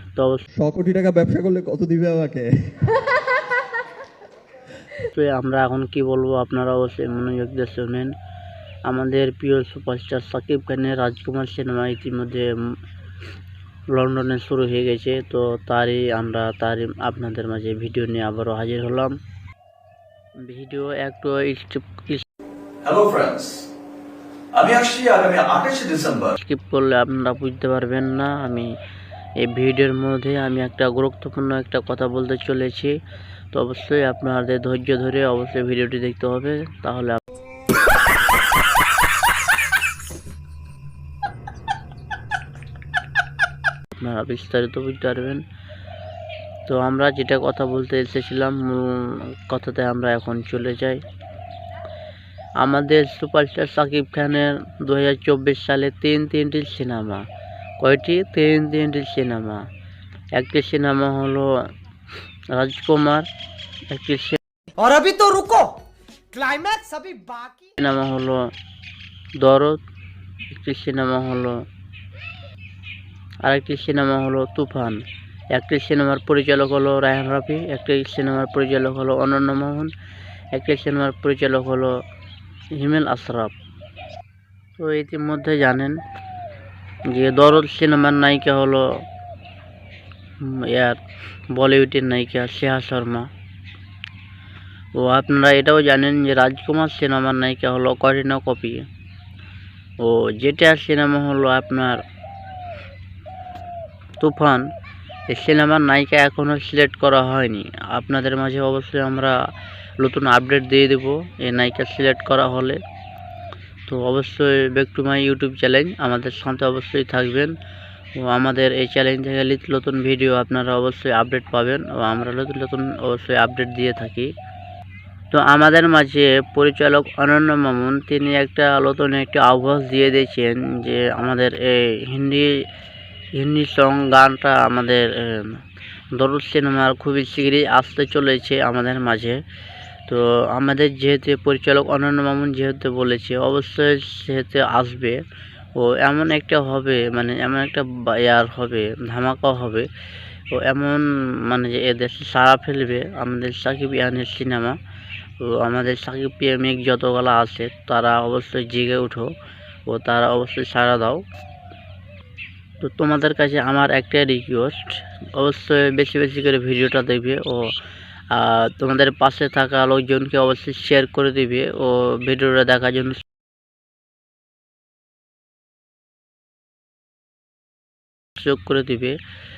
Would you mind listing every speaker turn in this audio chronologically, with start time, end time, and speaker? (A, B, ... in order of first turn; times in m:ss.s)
0:00.2-0:00.4 A
0:00.5-0:02.7 B
0:05.1-0:08.1 A
0:08.9-0:12.8 A
0:13.9-0:19.2 A
0:20.4-0:22.2 A
0:22.8-0:23.7 C
0:24.5-0:26.4 C
0:26.4-0:28.7 A
0:29.4-0:33.0 A
0:33.5-0:37.2 A
0:44.0-0:45.4 A
0:46.7-0:51.0 A
0:52.6-0:57.2 A
0:57.8-0:59.7 A
1:00.4-1:01.5 A
1:02.5-1:03.3 A
1:03.9-1:04.4 A
1:04.8-1:05.8 D
1:06.3-1:07.7 D
1:07.8-1:08.5 A
1:09.4-1:09.8 A
1:10.5-1:11.6 A
1:13.4-1:15.0 A
1:15.5-1:19.9 A
1:20.5-1:22.0 A
1:22.8-1:23.5 A
1:24.8-1:26.0 A
1:27.1-1:29.0 A
1:30.4-1:31.0 A
1:31.5-1:33.3 A
1:35.0-1:38.8 A
1:40.0-1:42.0 A
1:44.2-1:44.7 A
1:45.3-1:49.4 A
1:50.0-1:52.8 A
1:53.9-1:57.5 A
1:58.2-2:04.3 A
2:05.3-2:12.6 A
2:13.4-2:15.6 A
2:16.2-2:19.4 A
2:20.1-2:25.2 A
2:25.8-2:29.9 A
2:30.5-2:34.8 A
2:35.4-2:39.3 A
2:39.9-2:41.2 A
2:42.8-2:47.7 A
2:48.3-2:53.2 A
2:58.4-2:59.2 A